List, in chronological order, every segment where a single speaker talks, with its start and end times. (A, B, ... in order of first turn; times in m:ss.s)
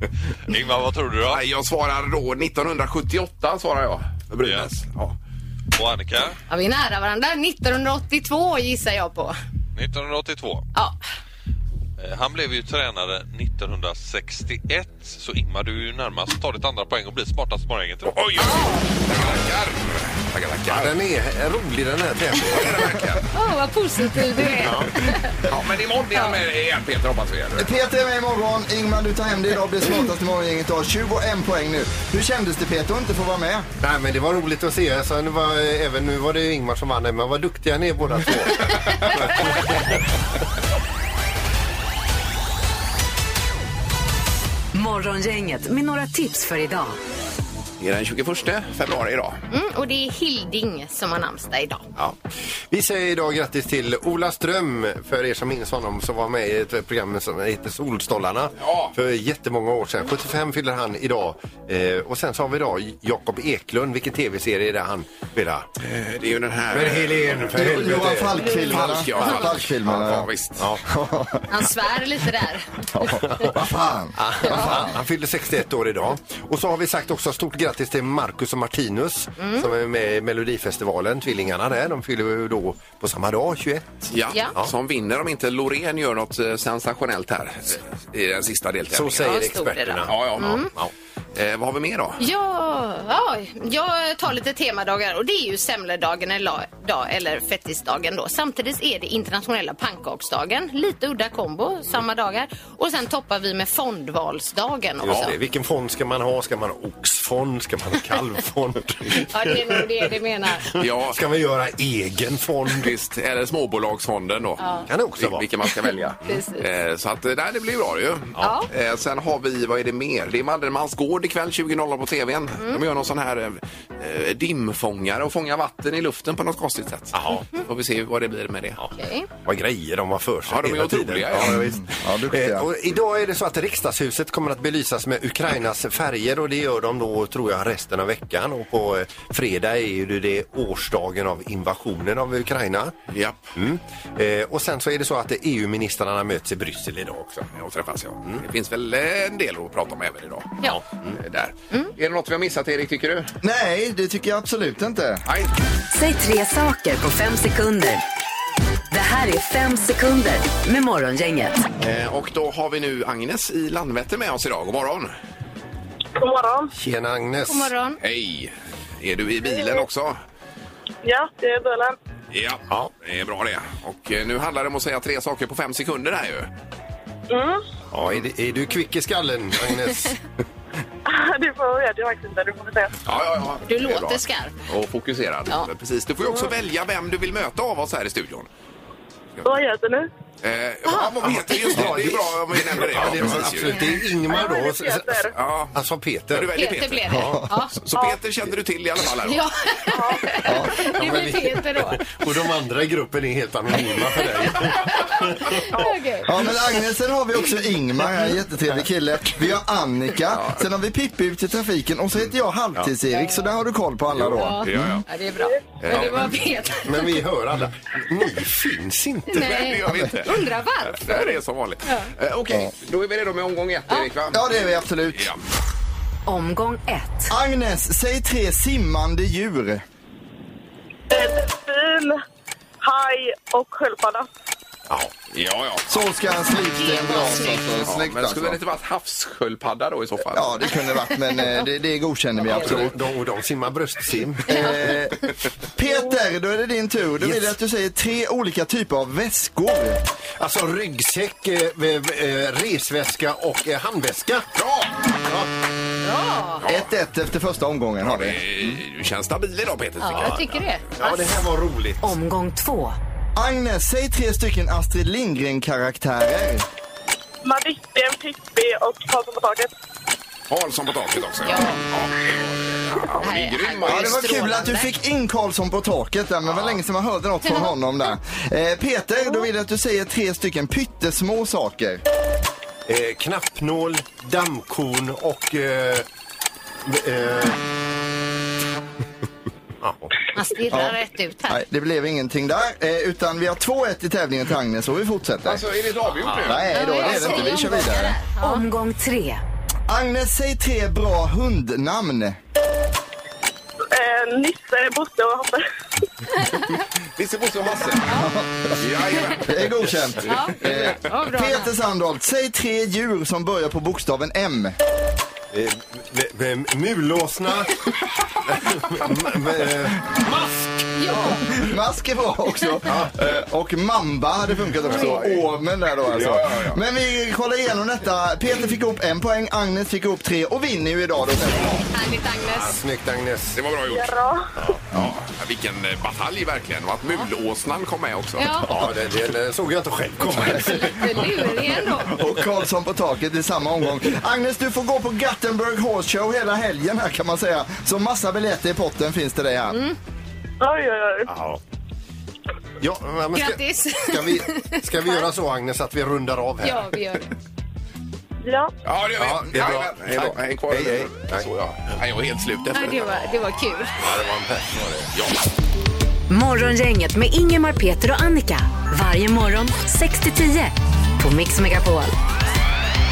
0:00.5-0:01.4 A
0:01.3-0:05.1 B
0:04.4-0:04.7 A
0:05.8-0:06.4 A
0:06.5-0:09.3 C
0:09.8-0:10.6 A
0:12.0-0:18.3 A
0:18.1-0:21.0 B
0:18.4-0:18.9 C
0:20.7-0:22.9 D
0:22.4-0:23.2 B
0:23.3-0:25.4 C
0:24.5-0:25.0 D
0:25.4-0:27.7 B
0:27.6-0:33.7 E
0:33.8-0:39.9 D
0:44.7-0:47.0 F
0:47.8-0:49.4 B
0:49.5-0:51.8 C
0:52.0-1:05.7 D
0:58.6-0:58.9 B
1:05.8-1:07.8 B
1:06.7-1:08.6 D
1:07.5-1:10.3 E
1:08.4-1:09.5 C
1:08.4-1:10.7 B
1:10.6-1:11.0 D
1:10.9-1:11.5 E
1:11.5-1:13.5 C
1:12.9-1:15.0 E
1:13.2-1:24.7 D
1:14.5-1:14.7 C
1:19.4-1:19.7 C
1:24.1-1:29.3 B
1:28.9-1:30.9 D
1:29.2-1:30.7 C
1:30.0-1:30.6 B
1:31.3-1:32.2 B
1:32.2-1:45.3 C
1:45.0-1:50.0 D
1:45.0-1:45.3 B
1:49.1-1:50.7 C
1:50.8-1:52.9 D
1:50.8-1:51.2 B
1:52.7-1:54.6 B
1:54.6-1:54.9 C
1:54.9-1:55.5 D
1:55.2-2:08.8 B
1:56.2-1:56.6 C
1:58.4-1:58.7 C
2:07.1-2:07.4 D
2:09.0-2:09.3 C
2:09.4-2:23.0 D
2:10.5-2:11.7 B
2:11.3-2:12.7 E
2:23.1-2:23.5 B
2:23.5-2:27.5 D
2:27.5-2:33.4 B
2:30.6-2:31.2 D
2:33.4-2:35.2 E
2:35.2-2:35.5 B
2:35.9-2:38.0 F
2:38.9-2:41.6 F
2:41.8-2:45.1 B
2:46.2-2:46.7 G
2:46.7-2:47.7 D
2:47.5-2:48.0 C
2:48.0-2:50.2 B
2:49.5-2:49.8 G
2:51.0-2:52.0 G
2:52.3-2:56.5 B
2:57.3-2:57.6 G
2:57.9-3:00.2 D
3:01.0-3:03.0 G
3:03.0-3:08.5 B
3:03.7-3:04.6 C
3:09.4-3:10.1 G
3:10.4-3:13.9 B
3:10.9-3:11.7 C
3:11.6-3:15.2 D
3:14.3-3:15.3 G
3:15.3-3:15.7 B
3:15.7-3:17.4 D
3:16.3-3:19.4 B
3:16.5-3:17.8 C
3:17.1-3:17.5 E
3:19.2-3:22.1 C
3:19.9-3:20.3 G
3:20.4-3:20.7 E
3:20.9-3:25.8 D
3:24.1-3:26.6 C
3:26.2-3:35.0 E
3:30.3-3:30.6 B
3:33.1-3:33.4 C
3:34.2-3:35.0 B
3:34.4-3:37.1 C
3:35.8-3:36.4 B
3:36.8-3:39.7 D
3:39.3-3:42.1 C
3:39.3-3:44.4 B
3:44.3-3:45.3 E
3:45.1-3:45.4 B
3:46.2-3:47.3 F
3:47.3-3:49.8 E
3:51.1-3:52.2 G
3:52.8-3:54.3 G
3:54.9-3:55.1 D
3:55.3-3:56.0 B
3:55.9-3:58.6 E
3:56.7-3:57.8 C
3:57.8-4:00.8 B
4:00.3-4:02.9 E
4:02.4-4:04.7 D
4:04.5-4:10.0 E
4:04.5-4:04.9 C
4:07.2-4:07.5 D
4:10.4-4:14.5 D
4:14.5-4:15.0 B
4:15.2-4:15.5 D
4:16.0-4:16.6 C
4:16.6-4:16.9 B
4:16.6-4:18.4 E
4:18.0-4:20.6 B
4:20.0-4:21.2 C
4:20.1-4:22.2 D
4:22.0-4:23.0 F
4:23.4-4:26.6 E
4:27.4-4:29.7 G
4:30.5-4:34.4 B
4:31.4-4:31.8 C
4:33.2-4:34.9 C
4:33.8-4:42.0 E
4:36.5-4:36.8 B
4:37.4-4:37.7 C
4:42.8-4:46.0 D
4:46.8-4:47.6 D
4:49.8-4:50.1 D
4:50.3-4:51.6 C
4:50.7-4:51.0 E
4:51.5-4:55.6 E
4:55.4-4:57.5 B
4:56.4-4:58.2 E
4:56.7-4:58.6 C
4:58.4-4:59.4 F
4:59.9-5:02.4 E
5:03.9-5:05.6 G
5:06.4-5:06.7 C
5:07.2-5:08.1 B
5:08.1-5:08.8 E
5:08.8-5:10.4 B
5:09.4-5:14.8 E
5:10.2-5:11.7 C
5:15.5-5:17.8 D
5:18.5-5:20.8 D
5:21.0-5:21.5 C
5:21.2-5:31.9 E
5:22.9-5:23.1 D
5:24.9-5:25.3 C
5:25.1-5:25.3 B
5:26.0-5:26.8 B
5:31.8-5:32.8 C
5:32.4-5:33.6 D
5:33.5-5:34.1 B
5:33.9-5:34.5 G
5:34.9-5:38.5 B
5:38.4-5:38.7 C
5:38.6-5:41.8 D
5:40.5-5:42.1 C
5:42.0-5:49.8 E
5:49.7-5:50.0 C
5:50.6-5:51.3 G
5:51.2-5:51.6 D
5:52.8-5:57.0 D
5:53.3-5:55.2 C
5:56.6-5:57.3 C
5:58.4-5:58.7 G
5:58.8-6:03.3 B
5:59.2-6:01.5 D
6:02.7-6:04.0 C
6:04.0-6:05.0 D
6:05.0-6:05.4 B
6:06.3-6:12.1 F